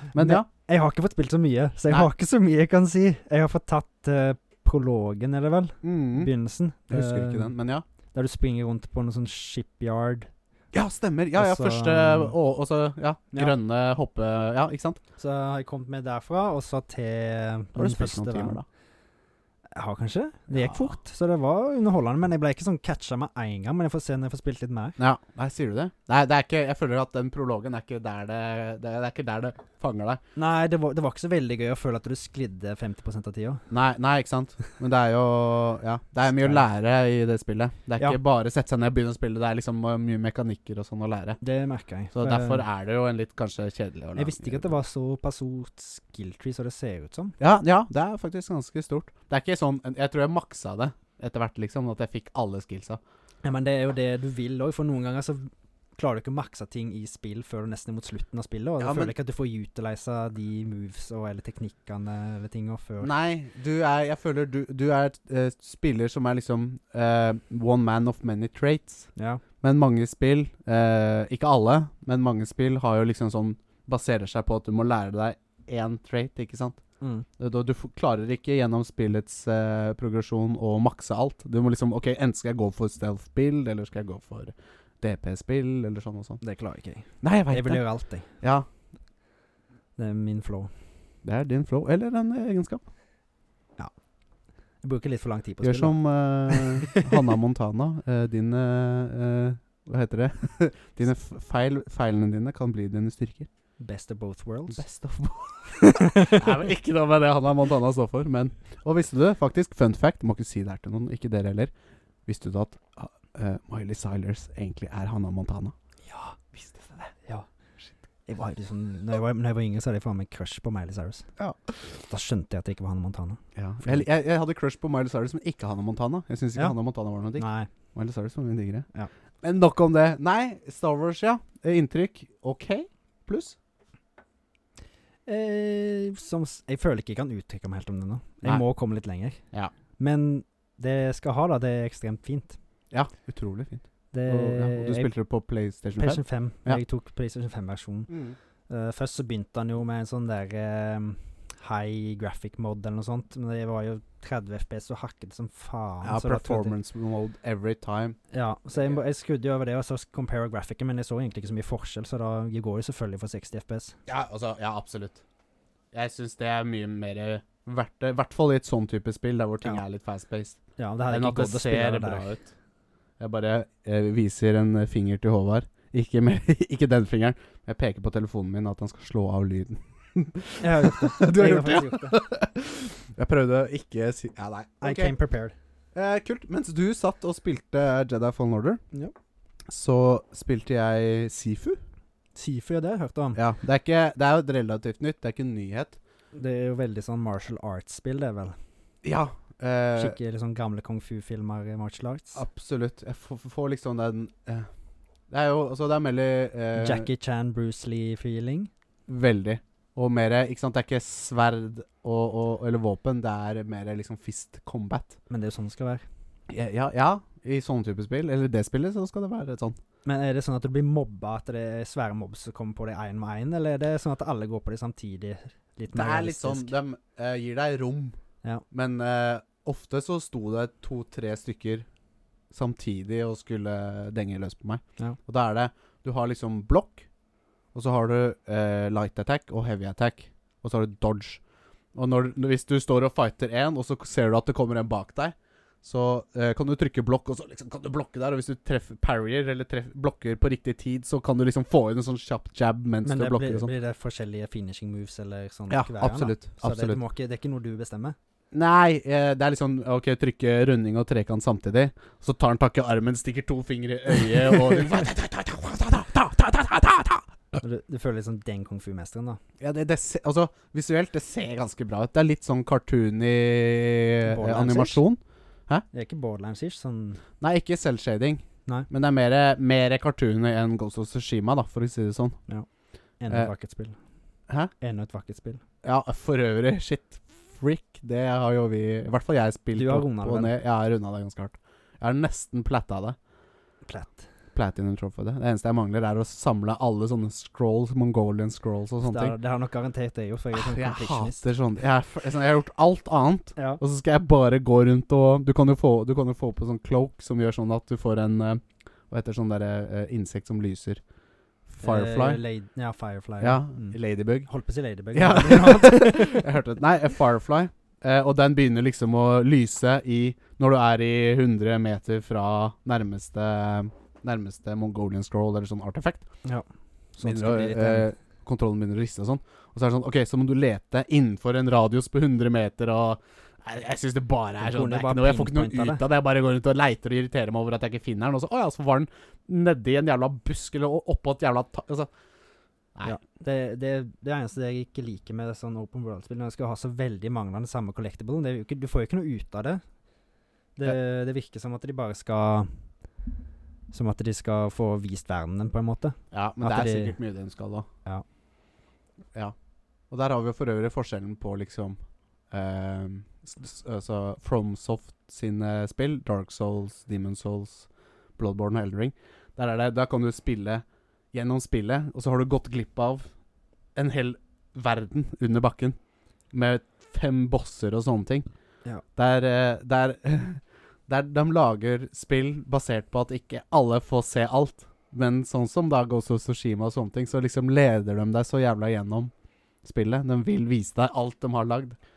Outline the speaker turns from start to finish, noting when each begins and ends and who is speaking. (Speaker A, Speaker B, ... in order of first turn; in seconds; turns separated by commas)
Speaker A: 0.1-0.5, Speaker B: 0.1-7.5, Speaker A: 5.8-6.3, Speaker A: 6.9-7.8, Speaker B: 8.1-10.3, Speaker A: 10.7-15.0, Speaker B: 11.3-12.4, Speaker B: 15.2-18.6, Speaker A: 17.8-18.6, Speaker B: 19.8-25.0, Speaker A: 20.5-21.0, Speaker A: 25.0-30.2, Speaker B: 30.4-33.6, Speaker A: 33.7-41.4, Speaker B: 36.3-36.6, Speaker B: 41.4-42.6, Speaker A: 42.1-44.8, Speaker B: 44.2-47.4, Speaker A: 47.4-53.0, Speaker B: 53.4-63.1, Speaker A: 58.8-59.1, Speaker A: 63.0-76.8, Speaker B: 69.2-69.4, Speaker B: 77.0-77.3, Speaker A: 77.4-86.4, Speaker B: 86.4-88.3, Speaker A: 87.2-87.8, Speaker A: 88.4-88.7, Speaker B: 90.0-90.7, Speaker A: 91.2-92.8, Speaker B: 94.8-97.1, Speaker A: 95.6-103.5, Speaker B: 103.8-104.8, Speaker A: 104.7-111.7, Speaker B: 105.8-106.5, Speaker A: 112.3-115.7, Speaker B: 116.1-116.4, Speaker A: 116.5-117.1, Speaker B: 118.3-121.3, Speaker A: 121.4-121.7, Speaker B: 122.0-124.0, Speaker A: 123.5-128.9, Speaker B: 127.4-127.7, Speaker A: 129.4-133.6, Speaker B: 135.3-139.4, Speaker B: 140.0-142.6, Speaker A: 142.9-146.8, Speaker B: 144.1-145.1, Speaker B: 146.0-148.1, Speaker A: 148.1-148.4, Speaker B: 148.7-156.8, Speaker A: 156.0-158.2, Speaker B: 158.3-164.0, Speaker A: 158.8-159.0, Speaker A: 164.1-165.2, Speaker A: 165.9-172.5, Speaker B: 170.8-172.3, Speaker A: 173.2-185.2, Speaker B: 180.6-182.2, Speaker B: 184.8-185.6, Speaker A: 185.9-188.8, Speaker A: 189.7-191.8, Speaker B: 192.3-193.4, Speaker A: 193.4-196.0, Speaker B: 196.3-198.6, Speaker A: 199.0-200.2, Speaker B: 200.0-202.4, Speaker A: 202.3-204.7, Speaker A: 205.3-207.1, Speaker B: 206.8-208.7, Speaker A: 209.1-215.2, Speaker B: 215.3-216.1, Speaker A: 216.5-219.8, Speaker B: 220.1-226.7, Speaker A: 225.9-228.2, Speaker A: 228.7-231.9, Speaker A: 232.5-237.1, Speaker A: 237.7-241.4, Speaker A: 241.9-253.7, Speaker B: 253.0-258.2, Speaker A: 255.7-257.0, Speaker A: 258.5-267.6, Speaker B: 267.6-269.4, Speaker A: 269.6-275.9, Speaker B: 274.2-275.0, Speaker B: 275.9-277.2, Speaker A: 277.4-282.4, Speaker B: 283.2-284.0, Speaker B: 284.8-285.6, Speaker A: 285.8-293.2, Speaker B: 289.8-290.5, Speaker B: 293.9-294.2, Speaker A: 294.6-299.4, Speaker B: 299.0-301.4, Speaker A: 300.5-311.0, Speaker B: 303.6-303.8, Speaker A: 311.7-312.4, Speaker B: 311.8-316.5, Speaker A: 313.4-314.5, Speaker A: 315.1-326.3, Speaker B: 326.4-328.1, Speaker A: 327.2-342.1, Speaker B: 334.6-336.0, Speaker B: 343.0-349.8, Speaker B: 350.8-352.7, Speaker B: 353.9-357.2, Speaker A: 356.3-357.9, Speaker A: 360.1-362.0, Speaker A: 362.5-373.3, Speaker A: 373.9-376.0, Speaker A: 376.5-378.5, Speaker A: 379.2-389.3, Speaker A: 389.8-392.0